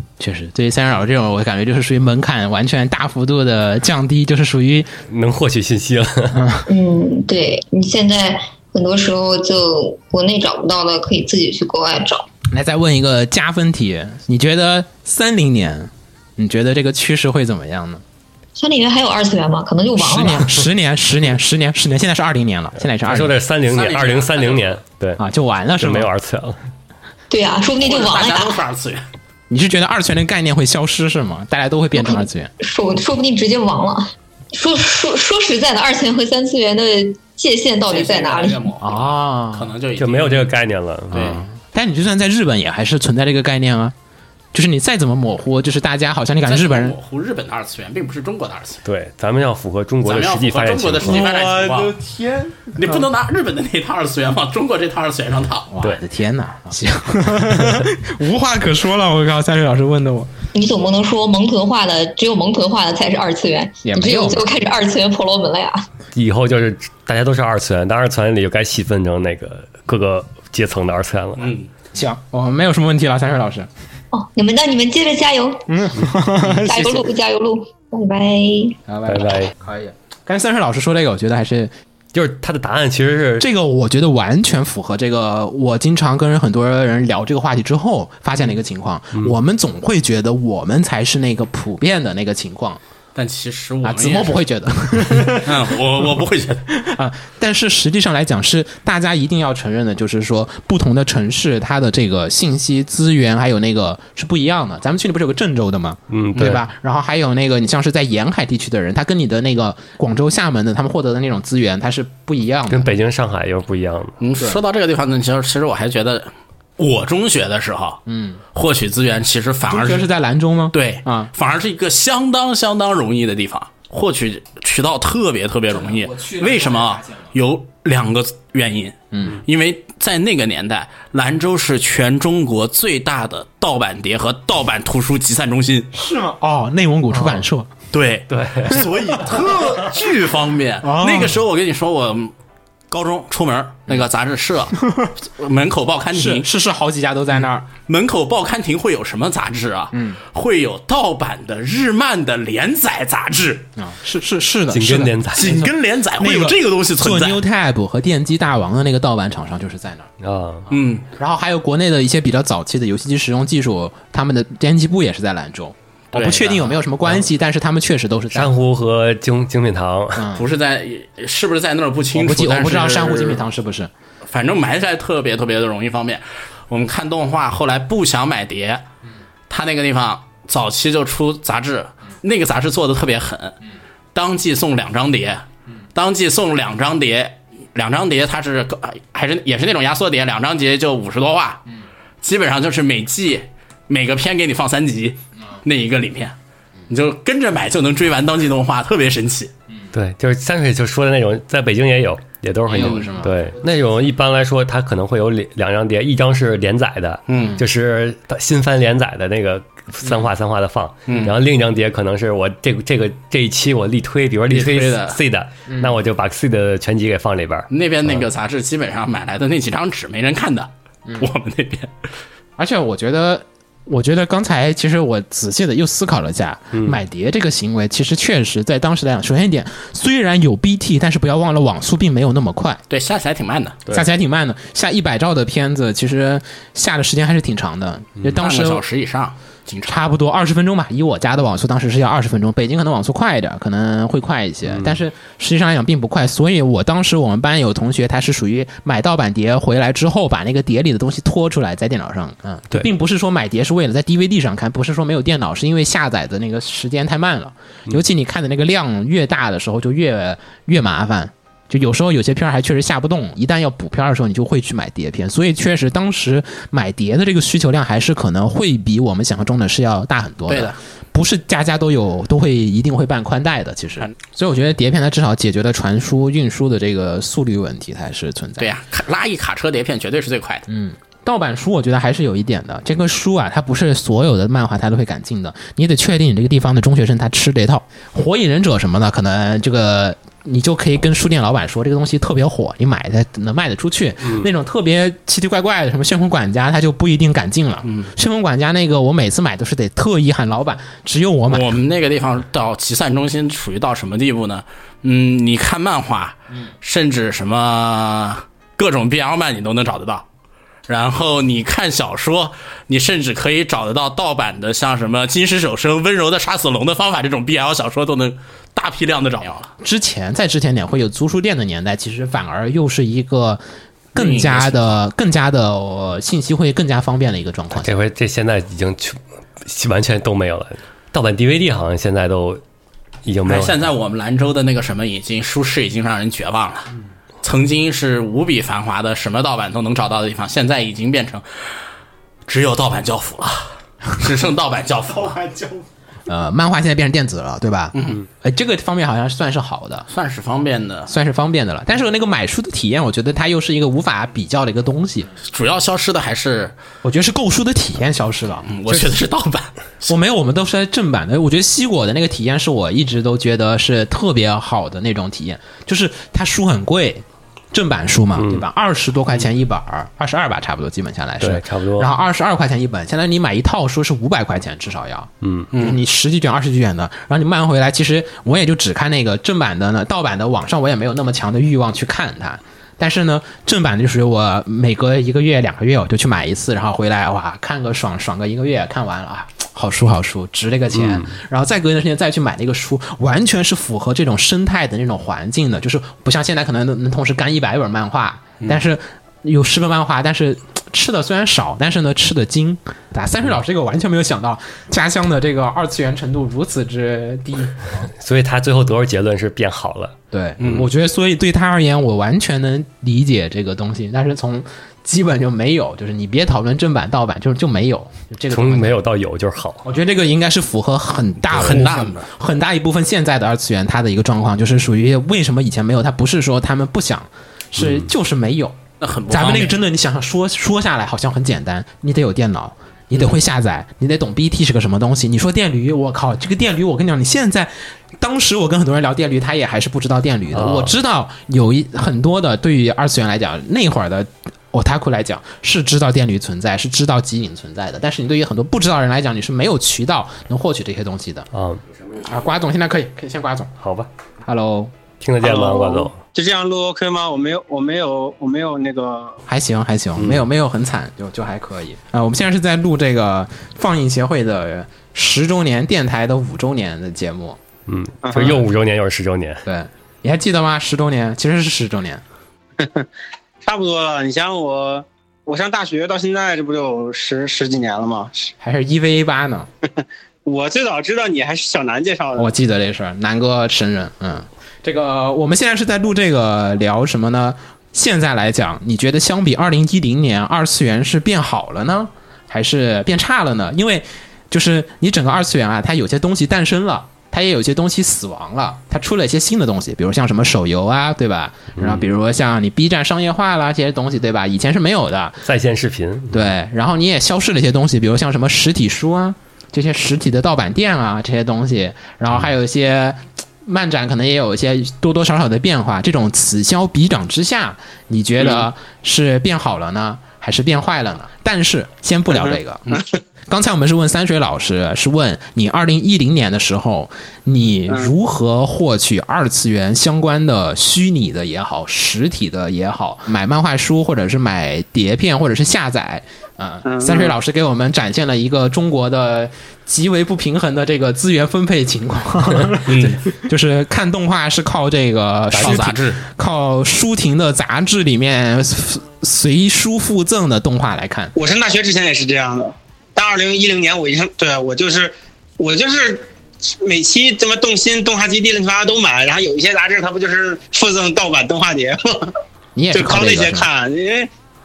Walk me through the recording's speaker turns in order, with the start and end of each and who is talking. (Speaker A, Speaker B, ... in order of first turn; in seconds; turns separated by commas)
Speaker A: 0.2-4.9, Speaker B: 5.1-6.4, Speaker A: 6.3-6.6, Speaker C: 6.7-12.3, Speaker A: 12.5-18.0, Speaker C: 18.6-20.6, Speaker A: 19.9-23.3, Speaker B: 23.0-25.2, Speaker D: 23.6-24.8, Speaker A: 25.2-26.1, Speaker B: 25.8-26.6, Speaker C: 27.3-28.6, Speaker D: 27.8-29.1, Speaker A: 29.5-32.5, Speaker C: 31.9-38.7, Speaker D: 37.9-40.5, Speaker A: 38.8-39.7, Speaker B: 40.0-41.4, Speaker A: 41.1-43.9, Speaker A: 44.5-47.0, Speaker D: 46.4-48.8, Speaker B: 48.8-51.5, Speaker D: 50.0-52.0, Speaker A: 51.1-53.0, Speaker D: 52.7-55.7, Speaker A: 55.7-60.3, Speaker C: 60.5-65.8, Speaker A: 63.8-64.6, Speaker B: 66.1-71.5, Speaker D: 71.4-71.7, Speaker A: 71.9-73.7, Speaker C: 74.1-75.6, Speaker A: 75.7-77.1, Speaker C: 76.6-78.7, Speaker A: 78.9-81.7, Speaker B: 79.1-79.5, Speaker B: 82.1-83.5, Speaker A: 83.4-92.8, Speaker D: 93.1-94.4, Speaker A: 93.8-95.5, Speaker D: 95.2-96.6, Speaker A: 96.7-112.9, Speaker B: 106.1-106.6, Speaker B: 112.7-114.2, Speaker D: 114.2-118.0, Speaker A: 118.0-118.4, Speaker D: 118.5-120.1, Speaker A: 119.7-121.3, Speaker D: 120.7-135.9, Speaker A: 125.7-127.3, Speaker A: 129.1-129.4, Speaker A: 135.9-137.7, Speaker D: 137.9-142.3, Speaker B: 138.3-138.8, Speaker A: 140.8-141.4, Speaker D: 142.9-146.5, Speaker A: 146.1-147.7, Speaker D: 147.9-153.7, Speaker A: 149.9-150.2, Speaker A: 153.8-160.1, Speaker B: 154.7-155.5, Speaker D: 155.3-157.4, Speaker B: 160.2-160.7, Speaker D: 160.7-161.1, Speaker A: 161.2-168.5, Speaker D: 166.1-166.8, Speaker B: 168.3-170.2, Speaker A: 170.2-170.4, Speaker D: 170.3-173.4, Speaker A: 172.1-173.9, Speaker D: 174.3-178.8, Speaker D: 179.5-183.6, Speaker D: 184.1-191.6, Speaker D: 192.2-196.3, Speaker D: 196.9-199.5, Speaker B: 199.9-217.7, Speaker A: 202.7-203.3, Speaker D: 202.7-203.1, Speaker D: 207.3-207.6, Speaker D: 211.1-211.3, Speaker D: 214.5-215.2, Speaker A: 215.7-215.9, Speaker D: 217.7-221.9, Speaker A: 222.6-232.8, Speaker D: 232.9-233.8, Speaker A: 233.9-238.8, Speaker D: 238.4-240.0, Speaker A: 239.9-278.7, Speaker B: 244.7-244.9, Speaker D: 270.5-270.8, Speaker D: 278.6-280.6, Speaker A: 280.7-301.8, Speaker D: 297.8-298.1, Speaker D: 301.5-310.2, Speaker D: 310.9-319.7, Speaker A: 319.8-323.6, Speaker D: 324.1-325.0, Speaker A: 324.1-327.9, Speaker B: 327.8-332.6, Speaker B: 333.2-333.9, Speaker D: 333.4-336.9, Speaker D: 337.4-341.4, Speaker D: 342.5-345.7, Speaker A: 346.3-350.1, Speaker D: 347.9-348.2, Speaker D: 350.1-351.1, Speaker A: 351.1-355.3, Speaker D: 355.4-356.7, Speaker A: 357.0-358.7, Speaker D: 358.7-360.1, Speaker A: 360.1-408.0, Speaker B: 368.4-368.6, Speaker B: 371.4-372.1, Speaker B: 375.4-375.7, Speaker D: 375.7-376.0, Speaker B: 390.9-391.3, Speaker B: 408.2-410.1, Speaker A: 410.3-419.0, Speaker D: 410.6-410.9, Speaker B: 418.5-419.8, Speaker A: 419.8-428.8, Speaker D: 421.5-422.3, Speaker B: 421.5-421.9, Speaker B: 427.8-428.1, Speaker D: 429.0-429.8, Speaker A: 429.3-451.5, Speaker B: 440.5-440.9, Speaker B: 451.5-451.8, Speaker A: 452.2-453.7, Speaker B: 453.8-454.1, Speaker A: 454.4-454.9, Speaker B: 455.2-456.1, Speaker E: 455.4-459.4, Speaker A: 459.5-467.6, Speaker B: 460.2-460.4, Speaker B: 467.9-469.6, Speaker E: 468.2-468.6, Speaker A: 469.6-472.2, Speaker E: 472.8-473.1, Speaker E: 473.6-478.5, Speaker A: 478.6-479.7, Speaker E: 480.0-482.5, Speaker A: 482.4-505.4, Speaker B: 501.8-502.1, Speaker B: 505.4-506.5, Speaker A: 506.3-551.3, Speaker E: 522.3-523.0, Speaker E: 527.9-528.1, Speaker E: 536.8-537.3, Speaker D: 542.9-543.2, Speaker D: 545.5-546.2, Speaker E: 551.3-562.4, Speaker A: 562.8-563.7, Speaker E: 562.9-564.3